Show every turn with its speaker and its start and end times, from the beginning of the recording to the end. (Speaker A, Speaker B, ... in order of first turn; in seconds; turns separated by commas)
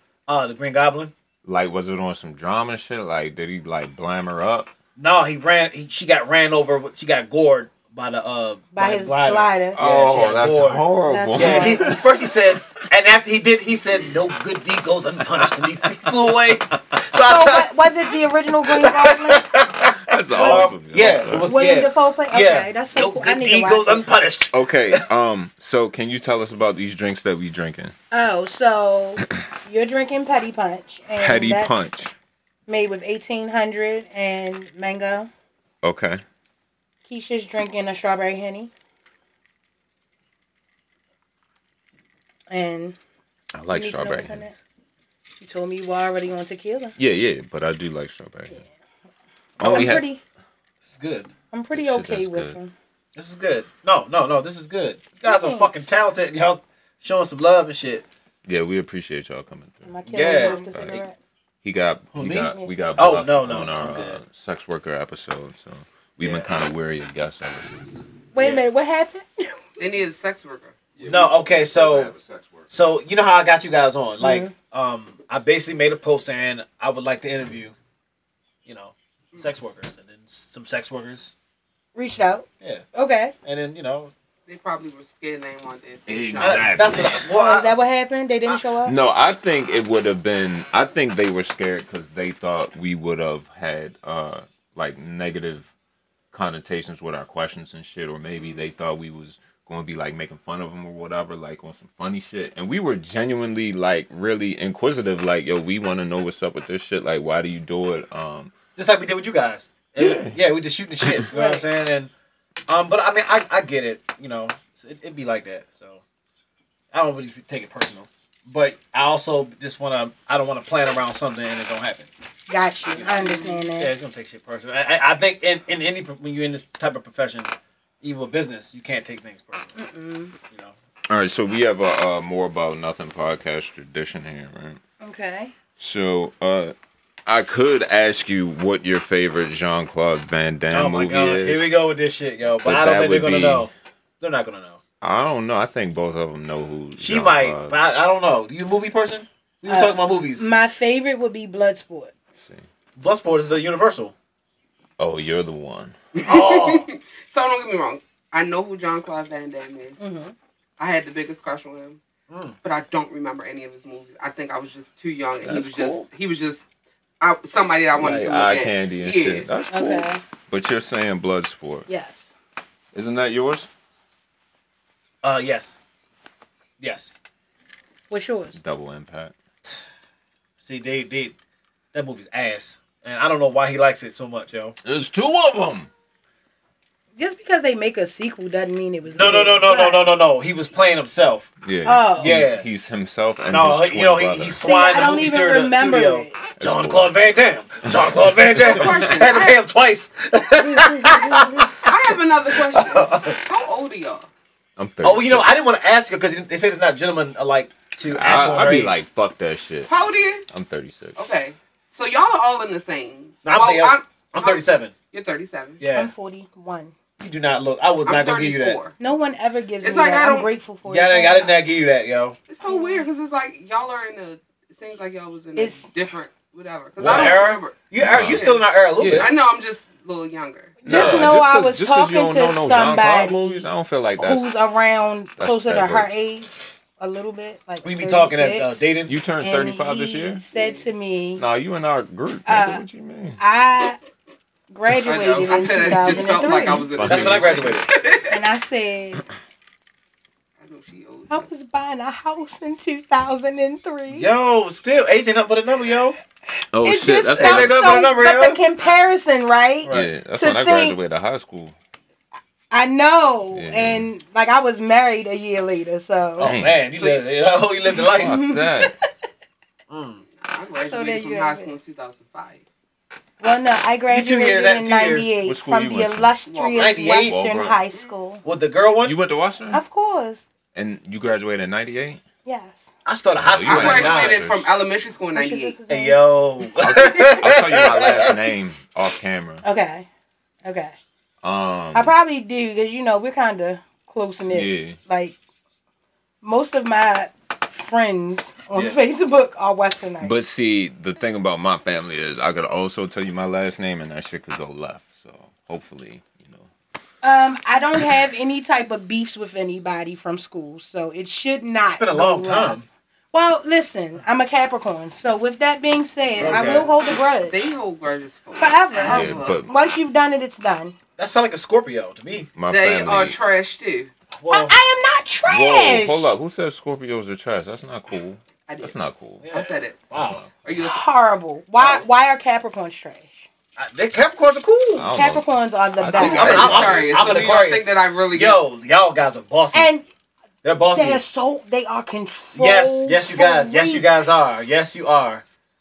Speaker A: 0.3-1.1, Speaker B: 1.4-4.7, Speaker A: 5.0-10.8, Speaker C: 8.7-9.8, Speaker B: 9.7-12.1, Speaker C: 11.1-12.0, Speaker A: 11.3-17.7, Speaker C: 17.1-19.4, Speaker A: 18.7-25.0, Speaker B: 20.1-21.5, Speaker C: 20.3-20.8, Speaker C: 21.4-24.1, Speaker B: 24.5-27.9, Speaker C: 28.1-31.9, Speaker B: 31.2-32.1, Speaker C: 32.7-35.3, Speaker B: 35.8-36.2, Speaker C: 37.1-38.7, Speaker C: 42.5-43.0, Speaker B: 43.5-44.5, Speaker C: 43.7-44.6, Speaker C: 45.4-47.0, Speaker B: 47.0-48.6, Speaker B: 49.6-50.0, Speaker A: 49.6-50.0, Speaker C: 49.6-50.2, Speaker A: 50.8-51.3, Speaker C: 51.5-52.7, Speaker B: 51.7-52.5, Speaker A: 53.1-58.0, Speaker C: 55.2-55.8, Speaker B: 58.4-59.9, Speaker C: 59.9-61.1, Speaker A: 60.1-61.0, Speaker D: 60.3-60.8, Speaker B: 60.5-61.0, Speaker B: 61.6-68.0, Speaker A: 62.1-64.2, Speaker A: 66.2-66.5, Speaker C: 68.3-69.6, Speaker A: 68.3-68.6, Speaker D: 69.8-70.7, Speaker B: 71.0-72.7, Speaker A: 71.0-72.1, Speaker A: 72.7-77.7, Speaker C: 74.2-74.5, Speaker A: 78.6-81.3, Speaker C: 81.9-83.3, Speaker A: 83.4-84.1, Speaker D: 84.5-86.9, Speaker B: 86.1-87.3, Speaker A: 86.4-87.8, Speaker C: 87.3-88.9, Speaker B: 88.8-95.7, Speaker B: 96.3-108.5, Speaker A: 108.8-112.1, Speaker B: 110.0-110.4, Speaker B: 111.0-111.3, Speaker C: 111.3-111.7, Speaker A: 112.7-116.0, Speaker A: 116.9-122.1, Speaker C: 122.5-123.9, Speaker A: 122.9-129.8, Speaker C: 129.8-130.3, Speaker A: 130.5-130.7, Speaker B: 131.1-134.8, Speaker C: 135.0-135.5, Speaker B: 135.8-136.7, Speaker B: 137.2-141.7, Speaker A: 140.7-144.8, Speaker B: 142.6-143.7, Speaker B: 145.0-147.8, Speaker A: 147.0-150.5, Speaker C: 149.7-152.1, Speaker A: 152.9-154.1, Speaker B: 155.0-155.9, Speaker D: 156.1-160.0, Speaker A: 156.2-156.9, Speaker C: 160.0-160.3, Speaker D: 160.8-162.0, Speaker A: 162.3-162.6, Speaker D: 162.6-166.6, Speaker B: 165.4-166.0, Speaker D: 167.2-169.5, Speaker B: 167.9-171.9, Speaker A: 168.0-168.5, Speaker C: 169.7-170.2, Speaker C: 171.9-172.3, Speaker B: 172.9-173.7, Speaker A: 175.2-175.8, Speaker A: 176.8-177.1, Speaker C: 178.1-178.5, Speaker B: 178.5-179.3, Speaker A: 180.6-181.3, Speaker A: 181.9-184.8, Speaker B: 184.8-185.9, Speaker C: 187.2-190.0, Speaker A: 189.1-191.5, Speaker B: 191.6-194.6, Speaker C: 191.8-192.3, Speaker A: 192.2-192.6, Speaker A: 193.5-203.4, Speaker C: 194.6-196.4, Speaker B: 196.6-197.2, Speaker B: 197.9-199.1, Speaker D: 198.6-199.6, Speaker C: 200.7-201.4, Speaker D: 201.8-204.3, Speaker B: 204.8-205.5, Speaker A: 205.0-209.0, Speaker B: 208.0-209.9, Speaker D: 209.9-210.4, Speaker B: 210.5-211.2, Speaker D: 211.2-215.8, Speaker A: 213.4-214.9, Speaker A: 215.8-216.1, Speaker C: 215.9-216.9, Speaker A: 217.2-218.8, Speaker D: 218.0-218.9, Speaker C: 219.0-221.7, Speaker D: 219.8-220.5, Speaker A: 220.9-222.4, Speaker D: 222.5-230.9, Speaker C: 222.6-223.1, Speaker C: 225.6-225.9, Speaker A: 227.0-229.3, Speaker B: 227.1-227.3, Speaker B: 228.0-229.3, Speaker C: 230.8-233.7, Speaker B: 230.8-234.5, Speaker A: 230.9-231.3, Speaker C: 234.2-238.8, Speaker B: 235.4-236.1, Speaker A: 237.8-239.1, Speaker B: 239.1-240.4, Speaker C: 239.4-241.4, Speaker D: 240.5-240.9, Speaker B: 241.4-243.4, Speaker C: 242.4-242.8, Speaker C: 243.4-244.0, Speaker C: 244.7-246.9, Speaker D: 245.0-248.3, Speaker B: 246.9-247.8, Speaker A: 247.0-247.8, Speaker C: 248.2-249.2, Speaker D: 250.6-251.5, Speaker C: 251.3-254.3, Speaker A: 254.1-256.1, Speaker B: 256.7-258.0, Speaker C: 256.8-261.0, Speaker A: 257.3-258.6, Speaker A: 259.8-260.1, Speaker B: 259.9-261.8, Speaker C: 262.7-266.5, Speaker B: 263.5-264.1, Speaker A: 266.4-268.4, Speaker B: 266.4-266.8, Speaker D: 266.9-267.3, Speaker C: 267.9-269.1, Speaker B: 268.1-268.9, Speaker A: 269.9-270.2, Speaker D: 270.4-272.6, Speaker C: 270.9-271.7, Speaker C: 273.4-278.4, Speaker A: 274.1-275.3, Speaker B: 275.4-276.3, Speaker D: 276.5-277.1, Speaker A: 276.7-277.3, Speaker B: 277.2-277.8, Speaker A: 278.4-279.1, Speaker B: 279.0-279.8, Speaker C: 279.7-280.4, Speaker B: 280.7-282.2, Speaker C: 282.4-282.9, Speaker A: 283.0-284.4, Speaker B: 283.4-284.7, Speaker D: 283.6-285.8, Speaker C: 285.3-286.2, Speaker A: 285.9-288.3, Speaker B: 286.8-289.6, Speaker C: 289.6-290.1, Speaker C: 290.6-290.9, Speaker B: 291.4-292.1, Speaker C: 291.9-295.4, Speaker B: 294.5-295.0, Speaker C: 296.4-300.4, Speaker B: 300.2-306.7, Speaker C: 307.2-312.8, Speaker A: 311.9-312.8, Speaker C: 313.3-317.6, Speaker D: 316.4-319.6, Speaker A: 316.4-316.9, Speaker C: 318.6-320.9, Speaker B: 319.0-319.7, Speaker A: 321.2-322.5, Speaker B: 322.5-323.4, Speaker D: 322.7-324.1, Speaker A: 324.3-324.7, Speaker C: 324.5-326.3, Speaker B: 325.4-329.5, Speaker D: 328.7-328.9, Speaker A: 329.4-330.4, Speaker D: 329.5-330.1, Speaker B: 330.1-330.5, Speaker D: 330.6-331.0, Speaker C: 330.7-333.5, Speaker A: 333.8-335.1, Speaker B: 334.9-335.4, Speaker C: 335.1-336.8, Speaker B: 336.0-337.5, Speaker D: 336.1-338.6, Speaker A: 336.1-339.9, Speaker C: 339.7-340.0, Speaker A: 340.6-341.2, Speaker C: 340.9-344.6, Speaker A: 342.6-345.4